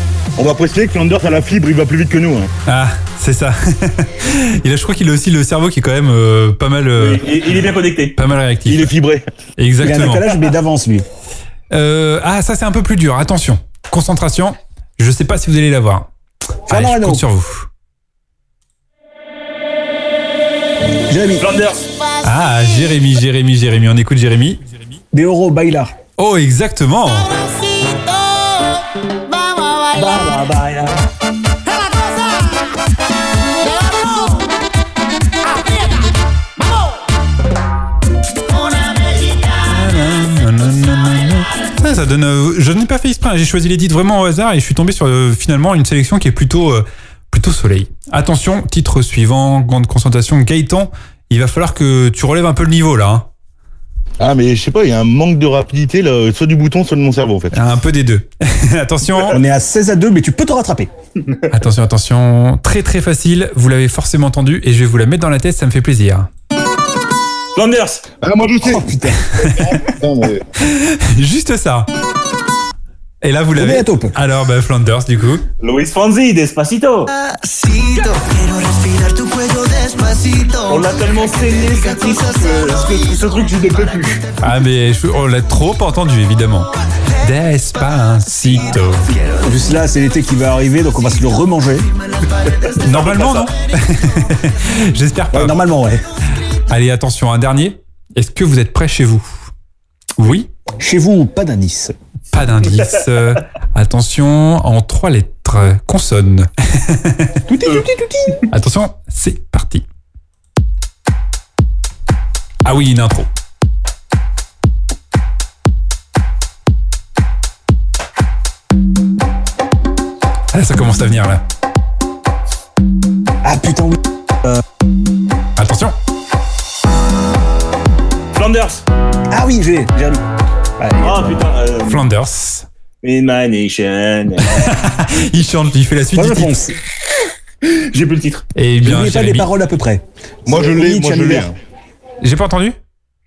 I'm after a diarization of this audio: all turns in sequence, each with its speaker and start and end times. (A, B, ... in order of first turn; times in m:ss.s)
0:00.4-0:02.5 A
0:02.6-0:07.4 B
0:07.0-0:08.2 C
0:08.2-0:08.9 B
0:08.6-0:09.3 A
0:09.6-0:10.3 B
0:09.8-0:11.0 D
0:11.7-0:16.1 B
0:16.7-0:17.2 D
0:16.7-0:17.7 B
0:21.1-0:21.5 D
0:21.4-0:21.9 C
0:22.2-0:24.6 B
0:25.1-0:25.9 D
0:26.2-0:27.3 B
0:29.4-0:29.8 E
0:29.9-0:31.0 C
0:33.8-0:34.1 E
0:39.6-0:53.3 B
0:54.2-0:57.6 A
0:57.5-0:59.4 B
0:59.3-1:00.9 D
1:01.5-1:06.3 B
1:07.6-1:08.0 C
1:08.2-1:10.4 A
1:08.6-1:09.3 D
1:10.6-1:11.9 B
1:13.2-1:15.4 B
1:13.6-1:14.2 D
1:15.6-1:17.1 C
1:17.1-1:24.2 E
1:20.7-1:24.2 C
1:24.4-1:29.1 B
1:29.4-1:31.9 D
1:32.7-1:33.5 C
1:32.8-1:35.6 B
1:35.3-1:36.0 D
1:36.7-1:39.5 B
1:40.2-1:40.5 B
1:40.8-1:41.9 D
1:42.3-1:47.4 B
1:47.5-1:48.4 D
1:48.5-1:49.8 B
1:52.6-1:53.3 B
2:00.5-2:01.4 B
2:03.4-2:04.6 D
2:05.6-2:06.0 B
2:08.3-2:08.8 C
2:09.3-2:10.2 D
2:10.8-2:11.4 D
2:11.0-2:12.1 C
2:11.8-2:12.6 B
2:13.0-2:14.6 C
2:14.5-2:16.6 B
2:16.1-2:16.8 D
2:17.6-2:18.4 C
2:18.6-2:19.5 B
2:18.8-2:21.5 D
2:20.4-2:21.5 A
2:22.2-2:22.8 B